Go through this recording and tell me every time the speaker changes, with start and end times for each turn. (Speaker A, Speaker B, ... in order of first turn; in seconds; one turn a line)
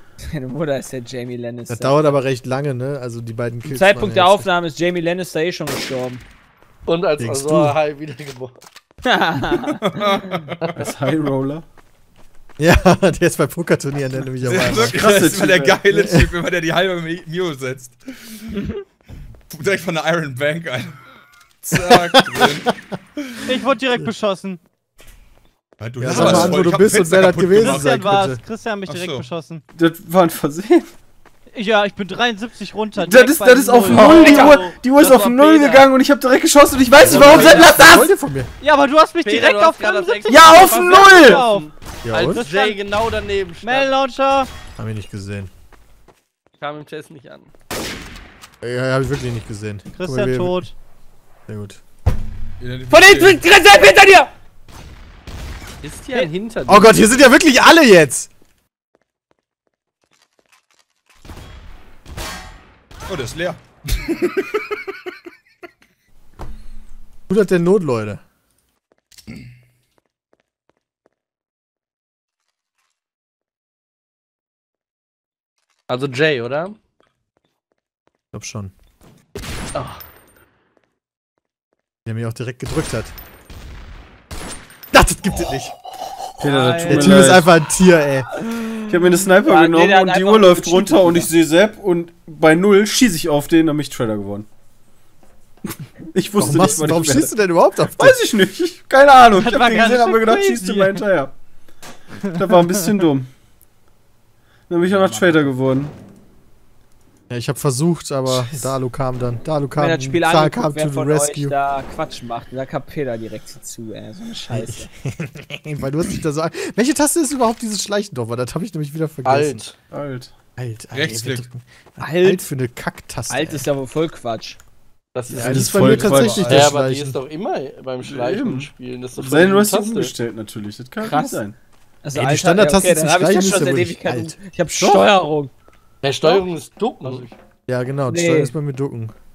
Speaker A: 0.3-2.2
Speaker B: 1.7-4.5
Speaker A: 3.6-6.2
Speaker C: 6.9-8.6
Speaker B: 7.2-7.8
Speaker A: 9.1-9.8
Speaker D: 9.8-10.8
Speaker E: 10.8-11.7
Speaker B: 12.6-15.0
Speaker D: 14.4-18.6
Speaker E: 14.7-16.0
Speaker B: 15.9-16.3
Speaker D: 19.5-21.0
Speaker D: 21.6-23.4
Speaker B: 21.9-22.6
Speaker F: 23.5-24.6
Speaker D: 25.8-27.9
Speaker B: 26.0-28.4
Speaker F: 27.6-29.6
Speaker D: 28.9-29.2
Speaker E: 29.7-30.9
Speaker F: 31.5-34.1
Speaker E: 33.0-37.7
Speaker A: 33.9-34.6
Speaker C: 33.9-35.9
Speaker B: 37.0-38.5
Speaker A: 37.1-38.1
Speaker F: 38.6-41.7
Speaker C: 39.2-43.9
Speaker E: 40.3-41.5
Speaker B: 42.0-42.5
Speaker F: 42.3-42.8
Speaker F: 43.6-44.5
Speaker B: 44.8-45.5
Speaker C: 46.6-47.5
Speaker B: 48.6-50.7
Speaker F: 50.0-50.7
Speaker B: 51.5-51.8
Speaker D: 52.6-53.5
Speaker A: 52.9-54.3
Speaker C: 55.8-56.9
Speaker B: 56.7-58.3
Speaker D: 63.1-64.8
Speaker B: 67.3-68.2
Speaker C: 75.9-76.8
Speaker B: 78.3-78.7
Speaker C: 79.7-80.0
Speaker B: 82.1-83.2
Speaker B: 84.9-85.7
Speaker E: 86.4-87.5
Speaker F: 86.5-87.0
Speaker B: 86.8-88.3
Speaker A: 88.5-91.3
Speaker E: 88.9-94.5
Speaker E: 96.1-97.3
Speaker B: 96.4-98.2
Speaker E: 98.0-101.3
Speaker F: 99.3-101.0
Speaker E: 102.4-103.3
Speaker E: 104.7-105.9
Speaker B: 107.3-111.5
Speaker E: 108.3-108.7
Speaker A: 109.8-114.9
Speaker B: 114.5-119.6
Speaker C: 119.2-119.8
Speaker E: 119.9-120.3
Speaker B: 120.6-123.7
Speaker D: 120.9-121.5
Speaker A: 122.0-122.5
Speaker A: 123.3-124.6
Speaker C: 125.1-130.1
Speaker E: 125.3-126.7
Speaker B: 125.3-127.2
Speaker D: 126.0-126.5
Speaker E: 128.0-131.6
Speaker A: 132.0-135.5
Speaker B: 132.2-134.4
Speaker E: 134.8-135.1
Speaker C: 136.0-137.3
Speaker F: 137.1-137.3
Speaker B: 137.7-139.1
Speaker A: 138.1-138.5